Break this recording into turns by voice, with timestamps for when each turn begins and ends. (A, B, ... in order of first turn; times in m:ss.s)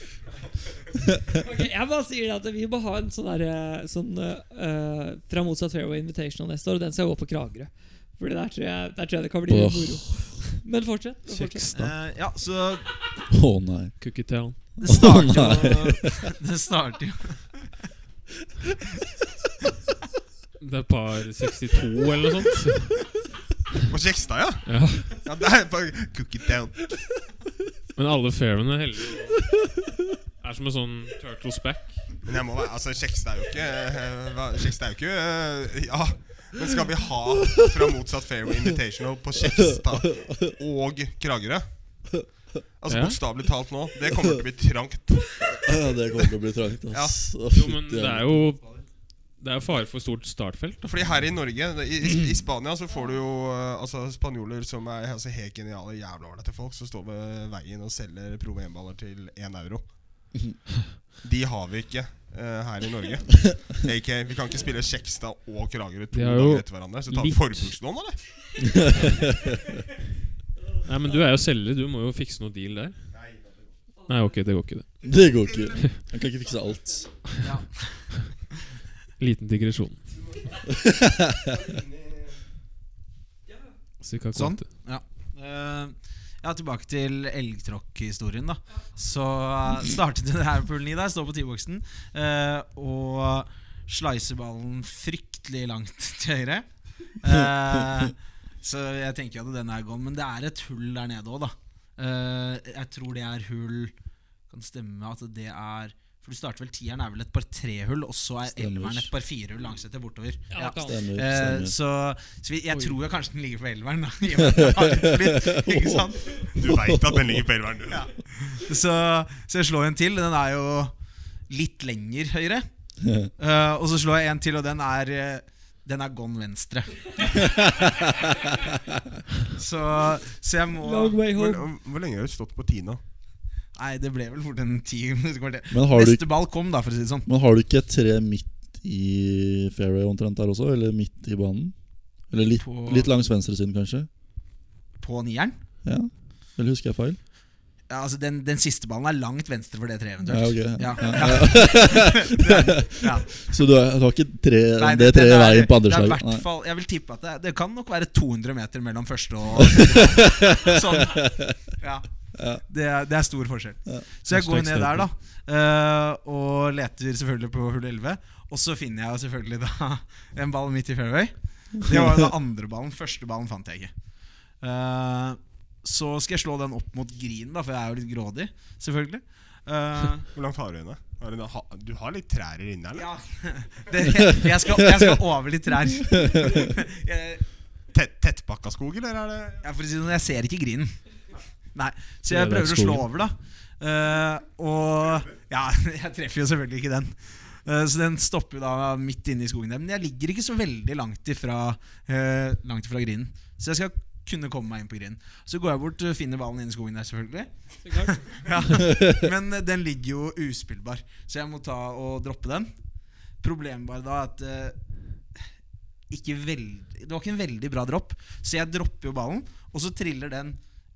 0:01.3-0:11.7 A
0:09.5-0:10.4 B
0:11.3-0:11.9 C
0:11.7-0:12.9 D
0:13.3-0:16.1 B
0:14.0-0:14.8 C
0:14.8-0:17.7 D
0:20.6-0:23.1 C
0:23.9-0:27.0 E
0:24.6-0:25.2 C
0:27.9-0:29.7 C
0:30.4-0:32.2 C
0:32.2-0:42.2 E
0:39.8-0:40.3 B
0:42.8-0:45.7 E
0:42.9-0:43.2 C
0:45.5-0:48.5 B
0:47.5-0:48.7 C
0:49.4-0:50.9 C
0:50.8-1:00.6 E
1:01.2-1:08.2 E
1:06.1-1:07.7 C
1:08.6-1:09.5 B
1:10.8-1:13.0 C
1:13.1-1:13.7 E
1:14.1-1:15.0 C
1:15.0-1:17.2 B
1:15.8-1:16.0 C
1:17.4-1:18.2 D
1:19.2-1:20.1 C
1:20.3-1:20.8 E
1:20.7-1:21.4 B
1:21.4-1:22.4 E
1:24.0-1:24.7 C
1:24.3-1:43.9 D
1:44.5-1:56.5 D
1:48.5-1:49.1 B
1:50.5-1:51.0 A
1:50.8-1:51.7 B
1:54.4-1:57.5 B
1:56.5-1:58.1 E
1:57.9-2:00.9 D
2:01.5-2:02.6 D
2:03.0-2:03.3 B
2:03.4-2:07.5 D
2:09.6-2:11.2 D
2:10.8-2:11.7 A
2:11.3-2:13.0 E
2:13.8-2:17.3 D
2:15.7-2:16.2 B
2:17.2-2:21.7 B
2:22.3-2:24.1 B
2:22.6-2:23.1 D
2:25.0-2:25.6 D
2:25.8-2:27.2 B
2:27.9-2:33.5 D
2:30.2-2:36.4 B
2:34.8-2:53.9 D
2:39.5-2:41.5 B
2:42.3-2:42.6 B
2:44.3-2:45.0 C
2:54.6-3:00.3 D
3:00.3-3:03.1 E
3:02.9-3:07.4 D
3:06.2-3:06.7 B
3:07.9-3:09.6 E
3:09.6-3:11.0 D
3:11.7-3:32.7 D
3:12.3-3:13.0 C
3:27.8-3:28.3 A
3:33.4-3:34.8 D
3:36.1-3:40.6 D